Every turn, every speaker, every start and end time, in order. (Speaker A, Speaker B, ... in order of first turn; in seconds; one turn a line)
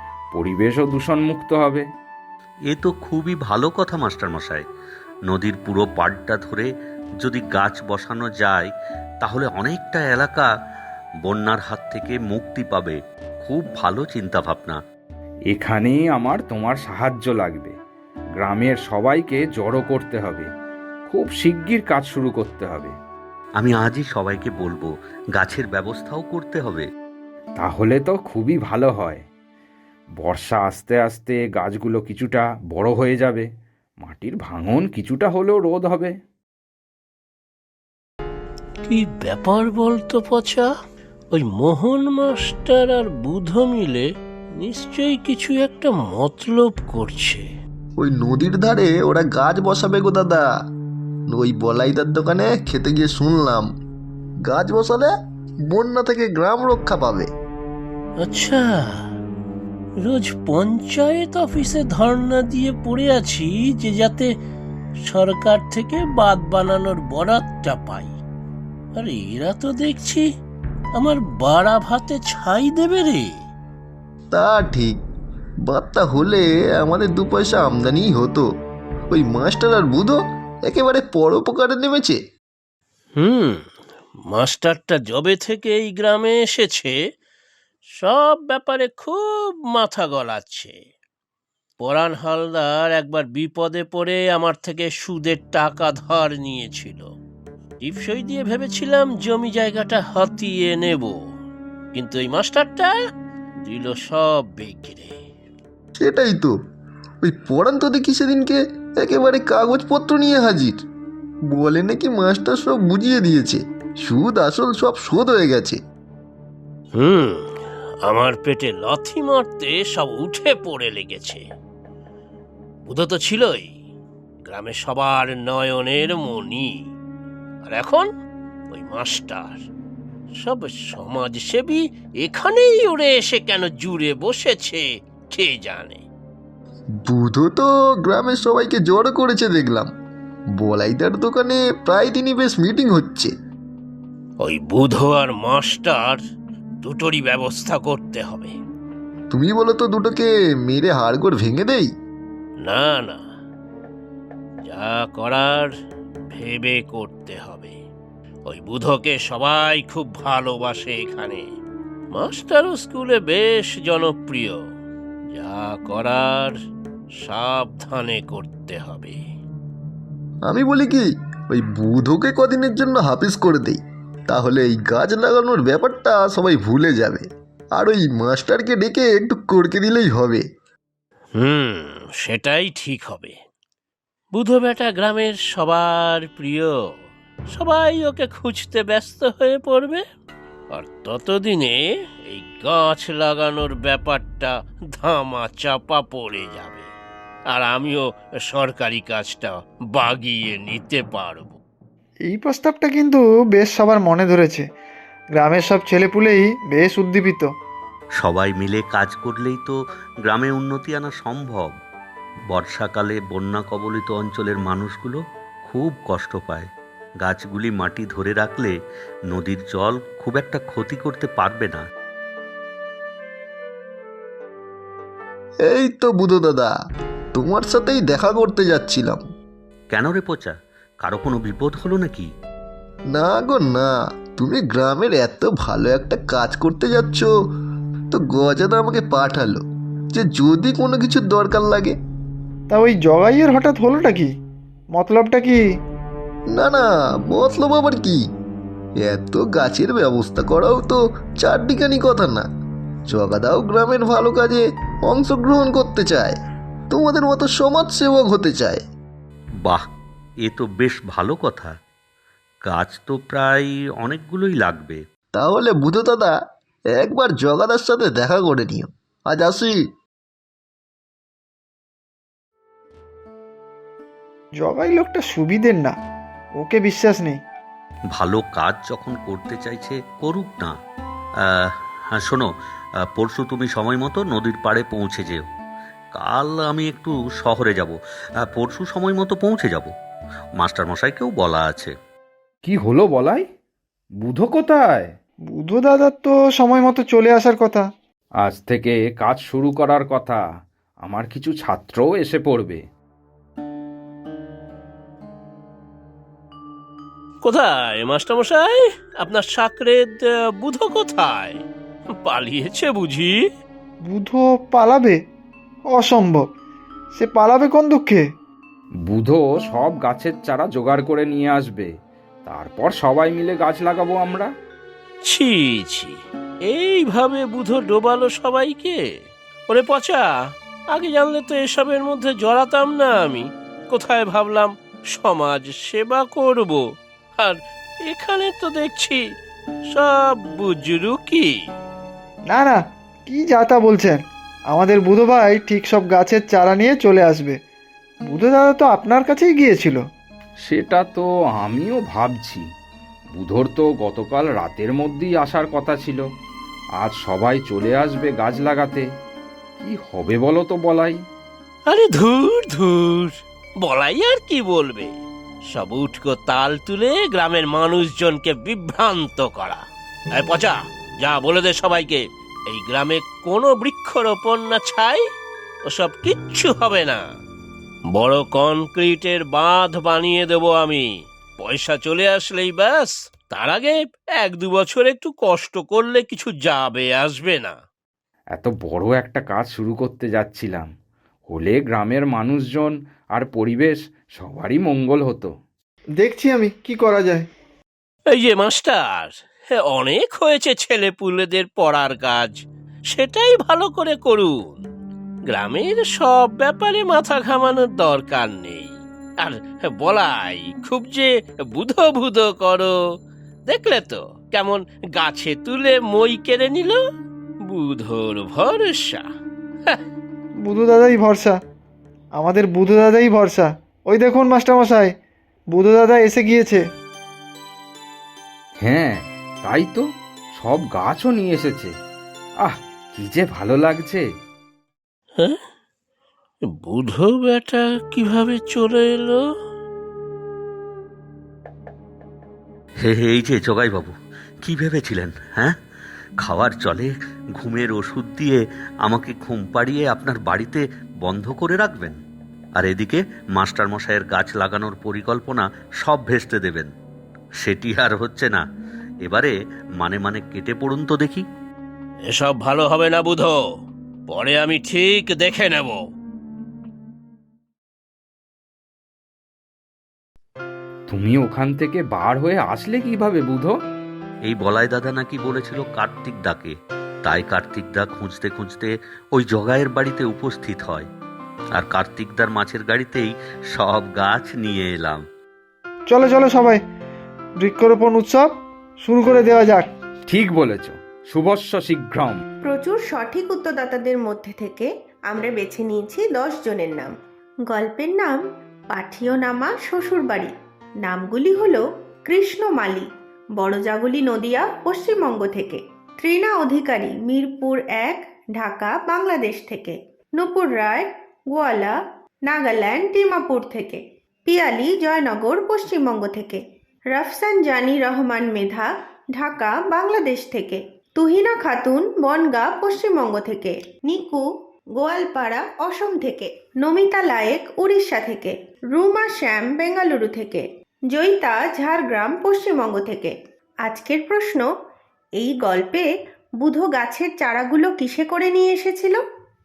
Speaker A: 0.3-1.9
Speaker B: 2.7-4.7
Speaker B: 5.3-6.7
Speaker B: 7.2-8.7
Speaker B: 9.2-10.5
Speaker B: 11.2-14.8
Speaker A: 15.5-17.7
Speaker A: 18.4-20.5
Speaker A: 21.1-22.9
Speaker B: 23.6-26.9
Speaker A: 27.6-29.2
Speaker A: 30.2-33.5
Speaker A: 34.0-36.1
Speaker C: 38.8-40.7
Speaker C: 41.3-44.1
Speaker C: 44.6-47.4
Speaker D: 48.0-50.5
Speaker D: 51.3-53.7
Speaker D: 54.5-55.1
Speaker D: 55.7-57.3
Speaker C: 58.2-58.6
Speaker C: 60.0-64.3
Speaker C: 65.1-68.1
Speaker C: 69.0-70.2
Speaker C: 71.0-73.3
Speaker D: 74.3-75.0
Speaker D: 75.7-78.5
Speaker D: 79.1-82.2
Speaker C: 83.2-83.6
Speaker C: 84.3-87.0
Speaker C: 88.0-90.8
Speaker C: 91.8-97.0
Speaker C: 97.8-101.2
Speaker C: 101.9-102.9
Speaker C: 103.6-105.2
Speaker D: 106.0-106.5
Speaker D: 107.2-110.8
Speaker D: 111.5-115.8
Speaker C: 117.0-117.5
Speaker C: 118.1-121.4
Speaker C: 122.8-123.7
Speaker C: 124.5-126.8
Speaker C: 127.6-128.1
Speaker C: 128.7-129.6
Speaker C: 130.4-136.0
Speaker D: 137.0-139.9
Speaker D: 140.6-143.3
Speaker C: 144.4-146.2
Speaker C: 146.8-148.5
Speaker D: 149.3-151.9
Speaker C: 152.6-153.2
Speaker C: 154.6-155.7
Speaker C: 156.3-157.7
Speaker C: 158.5-161.4
Speaker C: 162.1-164.6
Speaker C: 165.3-166.5
Speaker C: 167.2-169.2
Speaker D: 170.5-177.3
Speaker D: 177.8-180.4
Speaker C: 181.4-183.4
Speaker C: 184.3-186.8
Speaker C: 187.5-190.0
Speaker C: 190.7-196.9
Speaker C: 197.5-201.6
Speaker E: 202.3-204.6
Speaker E: 205.4-207.5
Speaker B: 208.2-211.8
Speaker B: 212.5-216.7
Speaker B: 217.2-218.8
Speaker B: 219.3-221.8
Speaker D: 225.7-226.7
Speaker D: 227.3-229.2
Speaker B: 229.9-232.3
Speaker D: 233.1-237.3
Speaker D: 238.1-239.6
Speaker D: 240.1-242.0
Speaker E: 242.7-244.3
Speaker E: 244.9-245.6
Speaker D: 246.5-248.2
Speaker D: 249.0-252.5
Speaker D: 253.1-256.4
Speaker D: 256.9-258.8
Speaker B: 260.4-261.7
Speaker B: 262.6-265.0
Speaker D: 265.3-266.4
Speaker D: 267.0-269.8
Speaker E: 274.6-275.9
Speaker E: 276.6-277.4
Speaker B: 278.1-280.8
Speaker B: 281.5-282.5
Speaker B: 283.1-285.4
Speaker B: 286.1-289.9
Speaker B: 290.6-291.9
Speaker A: 292.6-293.4
Speaker A: 294.2-295.1
Speaker E: 295.5-297.9
Speaker A: 298.4-300.4
Speaker A: 301.0-302.8
Speaker C: 307.4-311.6
Speaker C: 312.2-313.4
Speaker E: 314.0-315.2
Speaker E: 315.9-316.4
Speaker E: 317.2-318.2
Speaker A: 319.1-321.9
Speaker A: 322.4-324.5
Speaker C: 325.3-326.1
Speaker C: 326.7-329.0
Speaker C: 329.7-330.3
Speaker C: 330.9-336.8
Speaker C: 337.4-339.2
Speaker C: 339.9-341.6
Speaker E: 342.5-344.2
Speaker E: 344.7-347.6
Speaker E: 348.3-350.0
Speaker A: 350.6-352.6
Speaker A: 353.3-356.2
Speaker A: 357.0-359.1
Speaker A: 359.8-361.2
Speaker C: 361.9-365.1
Speaker C: 365.7-369.8
Speaker C: 370.4-375.2
Speaker C: 375.9-377.2
Speaker C: 378.1-381.1
Speaker C: 381.6-387.8
Speaker A: 388.5-390.9
Speaker A: 391.5-395.5
Speaker E: 396.2-397.5
Speaker C: 398.3-402.5
Speaker C: 403.1-404.8
Speaker C: 405.5-412.9
Speaker C: 413.7-417.0
Speaker C: 417.7-419.2
Speaker E: 420.6-421.6
Speaker E: 422.4-425.1
Speaker E: 425.7-426.8
Speaker A: 428.8-430.1
Speaker A: 430.6-431.9
Speaker A: 432.6-434.2
Speaker C: 436.8-439.4
Speaker B: 443.0-445.8
Speaker B: 446.4-452.2
Speaker B: 452.8-456.9
Speaker B: 457.6-458.6
Speaker B: 459.2-461.4
Speaker C: 462.3-463.6
Speaker C: 464.3-466.0
Speaker A: 471.1-473.8
Speaker B: 474.5-481.1
Speaker B: 481.8-485.2
Speaker E: 486.1-486.8
Speaker E: 487.6-488.5
Speaker E: 489.0-489.9
Speaker A: 490.3-492.4
Speaker F: 492.7-497.1
Speaker F: 497.7-498.4
Speaker F: 498.9-500.5
Speaker F: 501.0-503.1
Speaker F: 503.6-511.9
Speaker F: 512.5-516.6
Speaker F: 517.1-524.4
Speaker F: 525.0-533.3
Speaker F: 533.9-534.7
Speaker F: 535.4-536.1
Speaker F: 536.6-539.2